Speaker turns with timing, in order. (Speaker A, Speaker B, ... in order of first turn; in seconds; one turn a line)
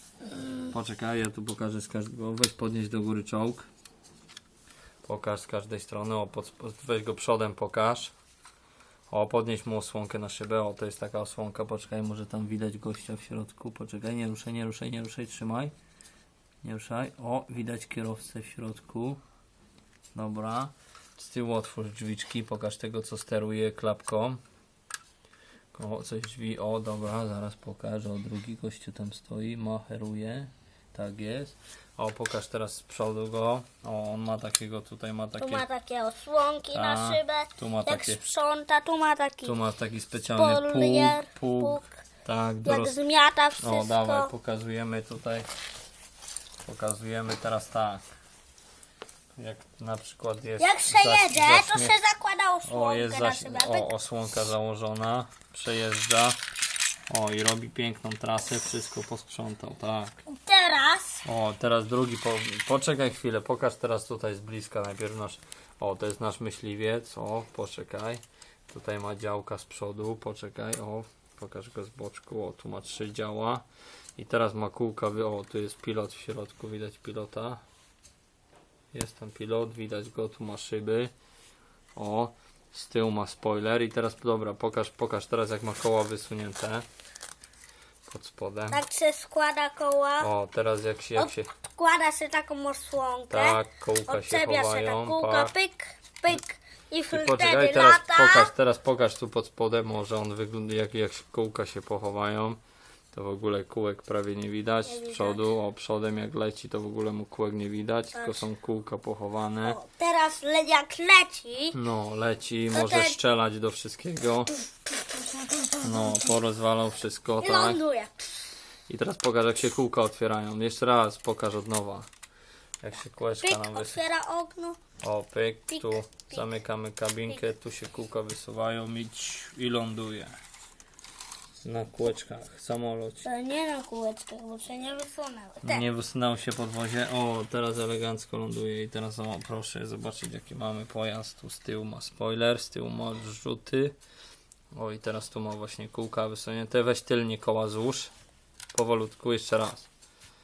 Speaker A: 0.6-3.7
Speaker A: 5.0-8.1
Speaker A: 9.1-15.7
Speaker A: 16.6-19.2
Speaker A: 20.1-24.4
Speaker A: 25.7-35.6
Speaker B: 35.4-39.6
Speaker A: 36.7-38.2
Speaker A: 39.4-42.9
Speaker B: 40.3-41.9
Speaker B: 42.6-44.3
Speaker A: 43.6-45.5
Speaker A: 46.6-48.0
Speaker A: 49.4-52.0
Speaker B: 50.6-53.9
Speaker A: 52.6-56.4
Speaker A: 57.1-60.2
Speaker B: 60.3-61.2
Speaker A: 61.2-73.6
Speaker A: 74.2-77.6
Speaker A: 78.9-81.1
Speaker A: 82.0-86.8
Speaker A: 88.1-88.8
Speaker B: 88.7-90.3
Speaker A: 90.2-91.5
Speaker B: 91.2-98.5
Speaker A: 93.3-95.5
Speaker A: 97.1-102.6
Speaker A: 103.1-109.8
Speaker B: 104.8-105.4
Speaker B: 109.6-111.8
Speaker A: 111.7-114.5
Speaker B: 112.7-113.2
Speaker B: 115.1-116.3
Speaker A: 115.8-117.8
Speaker B: 117.4-118.5
Speaker A: 118.9-122.1
Speaker A: 122.8-124.0
Speaker B: 123.4-124.8
Speaker A: 125.0-130.3
Speaker B: 125.7-126.6
Speaker A: 131.6-133.3
Speaker B: 133.2-135.8
Speaker A: 135.6-143.9
Speaker A: 144.7-148.1
Speaker A: 148.7-149.9